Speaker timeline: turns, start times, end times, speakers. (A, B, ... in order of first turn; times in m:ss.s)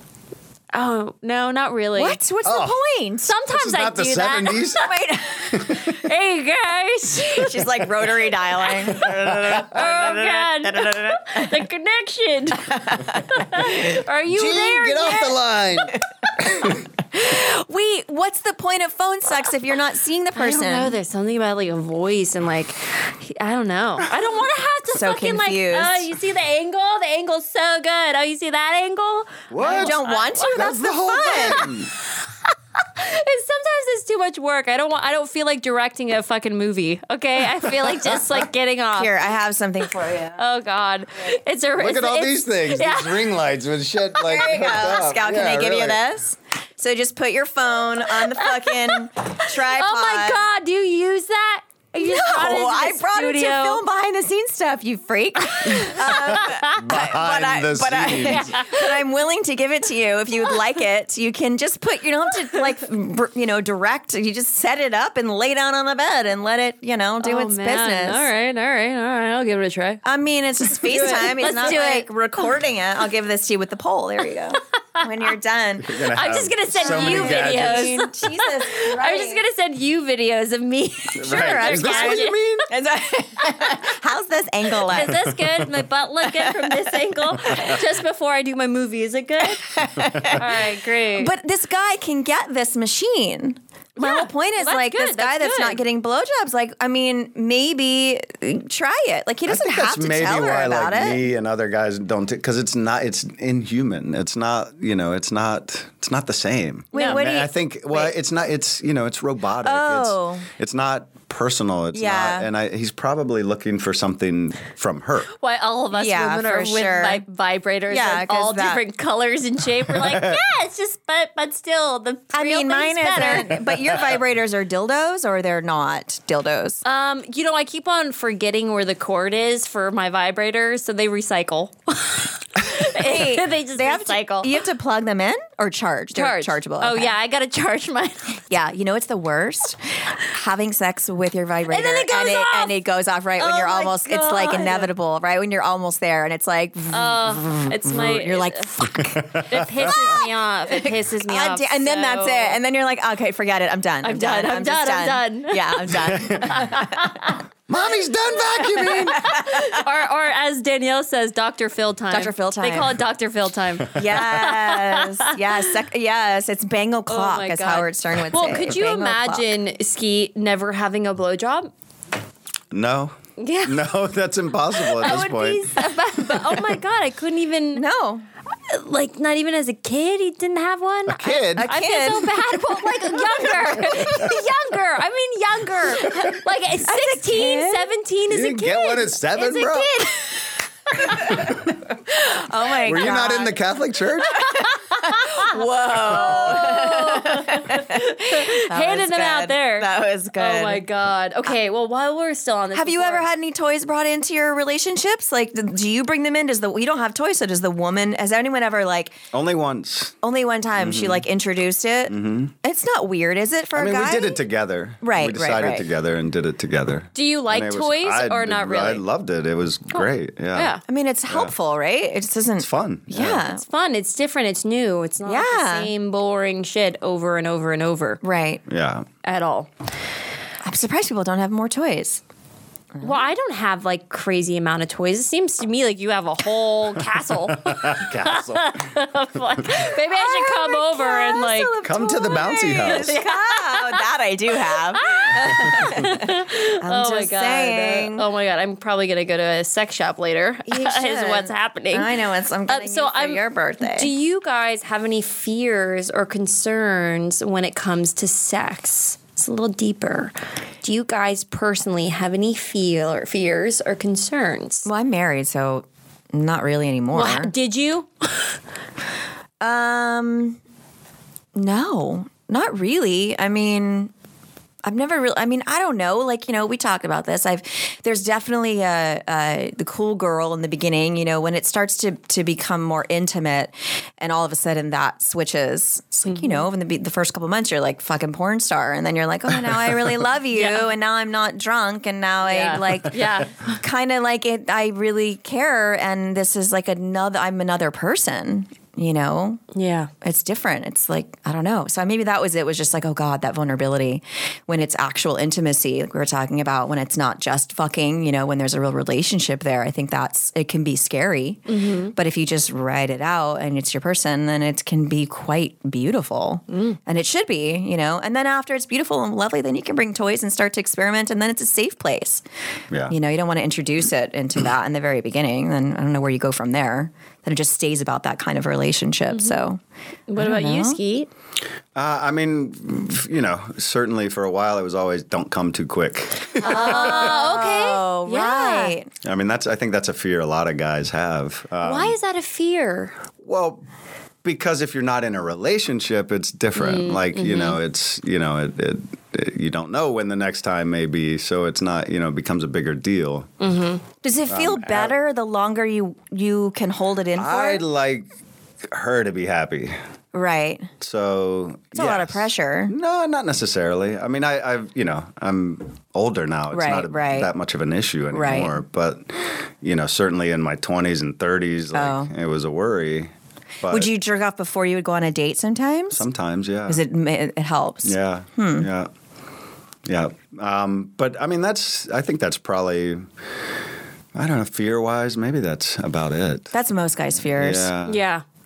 0:00.7-0:02.2 A
0:02.0-0:03.3 B
0:02.4-0:02.8 C
0:03.3-0:04.7 A
0:03.5-0:04.9 C
0:04.8-0:05.9 B
0:05.5-0:06.0 C
0:05.7-0:07.5 A
0:07.1-0:11.6 B
0:09.0-0:11.0 C
0:09.7-0:15.4 A
0:12.6-0:13.7 B
0:14.3-0:16.7 C
0:16.6-0:21.0 B
0:20.4-0:30.4 A
0:24.9-0:26.1 B
0:29.5-0:31.9 C
0:29.6-0:31.7 B
0:32.5-0:39.2 A
0:37.8-0:38.3 C
0:38.9-0:40.4 B
0:40.4-0:43.3 A
0:41.8-0:46.0 C
0:44.2-0:50.5 B
0:48.4-0:53.8 A
0:52.0-1:08.3 B
0:56.1-0:58.6 C
0:58.3-0:58.8 A
1:07.2-1:10.0 A
1:10.0-1:16.0 B
1:10.7-1:12.1 A
1:15.8-1:18.0 C
1:16.1-1:22.5 A
1:16.7-1:19.4 B
1:21.2-1:22.6 C
1:21.3-1:25.2 B
1:24.9-1:29.6 A
1:26.2-1:26.9 B
1:29.5-1:30.4 B
1:30.3-1:31.3 A
1:31.2-1:41.2 B
1:34.0-1:35.8 A
1:39.5-1:55.3 C
1:46.9-1:48.2 B
1:46.9-1:47.2 A
1:49.6-1:50.5 B
1:51.9-1:52.5 B
1:55.4-2:03.6 A
1:55.9-1:57.2 B
1:57.9-1:58.8 B
1:59.9-2:00.4 C
2:02.3-2:06.8 B
2:06.8-2:14.6 A
2:12.7-2:17.1 B
2:16.1-2:18.4 A
2:18.5-2:37.1 B
2:21.7-2:22.8 A
2:23.4-2:24.9 A
2:26.9-2:28.7 A
2:29.3-2:29.9 C
2:29.3-2:32.6 A
2:34.0-2:35.9 A
2:36.1-2:36.5 C
2:36.5-2:37.4 A
2:37.7-2:39.3 C
2:38.6-2:45.6 A
2:39.2-2:39.6 B
2:42.1-2:43.0 B
2:43.9-2:49.6 B
2:47.1-2:51.7 A
2:52.7-2:55.7 C
2:53.4-2:53.8 A
2:54.9-2:57.8 A
2:57.7-2:58.3 B
2:58.7-3:11.3 A
3:01.1-3:01.7 C
3:01.5-3:04.2 B
3:06.8-3:07.9 B
3:08.3-3:10.0 C
3:11.2-3:11.8 C
3:12.1-3:13.6 B
3:12.8-3:14.6 C
3:14.3-3:20.8 B
3:14.5-3:23.3 A
3:22.7-3:29.2 B
3:29.3-3:30.2 C
3:30.2-3:34.4 B
3:30.8-3:31.2 C
3:32.1-3:32.5 C
3:33.8-3:40.8 C
3:35.0-3:35.9 B
3:37.2-3:39.0 A
3:39.9-3:40.8 A
3:40.9-3:43.6 B
3:42.6-3:43.4 C
3:43.5-3:48.2 A
3:45.2-3:45.9 B
3:48.2-3:48.6 B
3:48.7-3:49.1 C
3:49.2-3:49.7 A
3:50.6-3:52.2 B
3:52.9-3:53.2 B
3:53.0-4:01.8 A
3:57.6-3:58.9 C
4:00.1-4:08.3 B
4:01.8-4:03.2 C
4:02.7-4:04.0 A
4:05.0-4:12.1 A
4:10.7-4:14.1 B
4:12.7-4:24.9 A
4:24.8-4:27.5 B
4:27.1-4:28.6 A
4:29.6-4:30.6 B
4:31.6-4:34.1 B
4:34.8-4:59.6 B
4:46.3-4:46.7 A
4:50.5-4:50.9 A
4:52.4-4:53.7 A
4:59.7-5:00.1 A
5:00.2-5:22.4 B
5:11.7-5:12.2 A
5:16.7-5:17.0 A
5:23.1-5:29.8 B
5:29.3-5:29.6 A
5:30.3-5:31.3 A
5:30.4-5:31.0 B
5:32.0-5:37.3 C
5:36.6-5:39.0 A
5:36.6-5:39.1 B
5:39.2-5:42.2 C
5:41.8-5:43.1 A
5:43.4-5:43.8 C
5:44.4-5:53.5 C
5:46.8-5:47.8 A
5:53.6-5:54.0 A
5:54.2-5:57.8 B
5:54.5-5:55.1 C
5:57.4-5:58.3 C
5:58.9-6:00.0 C
6:00.3-6:00.9 B
6:01.0-6:13.3 C
6:02.0-6:03.0 B
6:06.7-6:07.5 B
6:08.3-6:08.8 B
6:11.9-6:12.3 B
6:13.8-6:14.1 C
6:13.9-6:16.3 B
6:16.1-6:17.0 C
6:16.9-6:18.9 B
6:18.0-6:19.1 C
6:20.1-6:23.2 C
6:24.4-6:26.7 C
6:26.7-6:27.9 B
6:27.6-6:28.2 C
6:28.1-6:28.4 A